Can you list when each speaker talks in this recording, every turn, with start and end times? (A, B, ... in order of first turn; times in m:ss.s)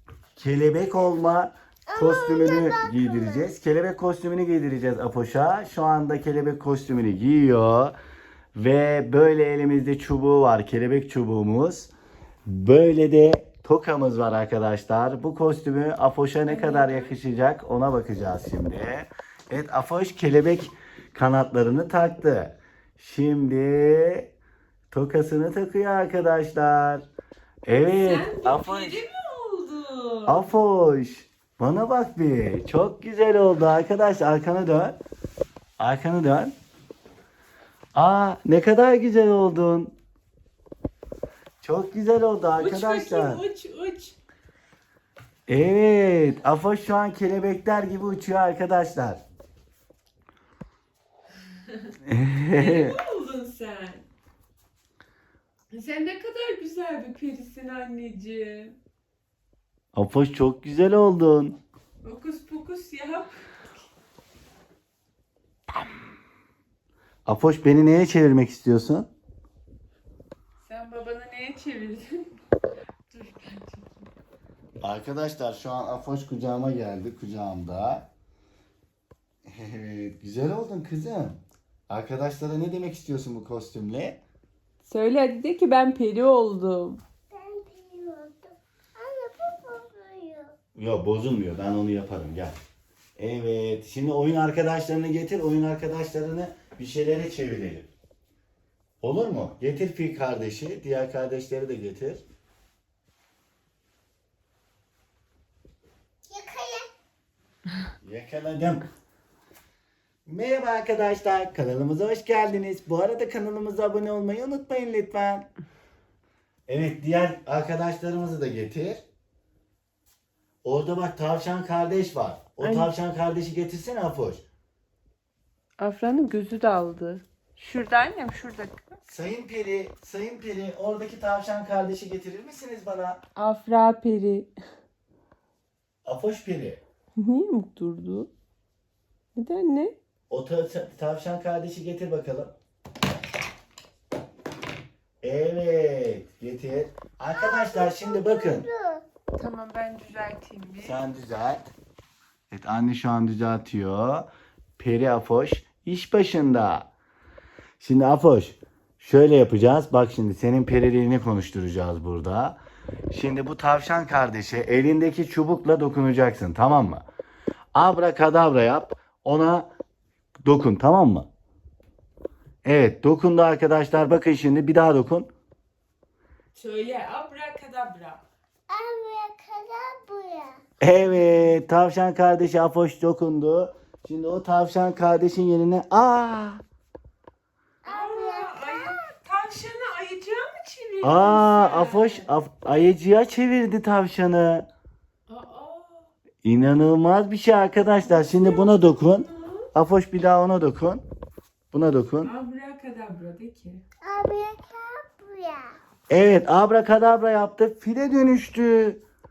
0:00.4-0:08.0 A
0:01.9-0:03.5 B
0:08.6-0:11.9 A
0:12.5-0:24.3 A
0:16.4-0:17.1 C
0:24.9-0:27.1 A
0:27.6-0:29.0 A
0:27.7-0:30.4 C
0:30.3-0:35.0 A
0:35.8-0:36.5 A
0:37.9-0:39.9 A
0:41.6-0:43.4 A
0:42.6-0:44.2 C
0:45.5-0:49.2 A
0:52.1-0:53.0 A
0:52.5-0:54.0 C
0:55.7-0:58.8 C
0:59.9-1:01.6 A
1:02.0-1:03.6 C
1:07.3-1:09.1 A
1:10.6-1:12.3 C
1:13.1-1:14.1 C
1:14.8-1:18.1 A
1:19.5-1:24.2 A
1:24.8-1:27.0 C
1:27.3-1:30.6 B
1:30.8-1:32.6 A
1:33.2-1:37.9 A
1:39.0-1:42.2 A
1:46.3-1:46.9 B
1:48.0-1:48.9 A
1:50.3-1:55.5 A
1:56.7-1:59.0 A
2:00.6-2:04.4 A
2:02.6-2:02.9 C
2:05.8-2:08.9 C
2:09.1-2:13.2 A
2:13.4-2:14.5 C
2:16.0-2:16.8 A
2:17.2-2:18.3 C
2:19.4-2:20.0 C
2:20.3-2:22.5 A
2:25.2-2:28.7 A
2:27.3-2:29.0 B
2:29.4-2:31.0 C
2:30.8-2:31.7 A
2:32.5-2:36.9 A
2:37.8-2:42.6 A
2:43.1-2:47.0 A
2:47.7-2:49.7 A
2:50.4-2:51.3 A
2:52.6-2:55.3 A
2:56.6-2:58.2 C
2:58.7-3:00.6 B
3:00.8-3:06.6 A
3:07.8-3:09.0 B
3:07.9-3:12.3 C
3:11.0-3:14.7 A
3:15.3-3:16.1 C
3:16.4-3:21.0 A
3:18.0-3:19.7 C
3:21.7-3:22.3 A
3:22.2-3:23.8 C
3:24.0-3:25.8 B
3:26.1-3:29.0 A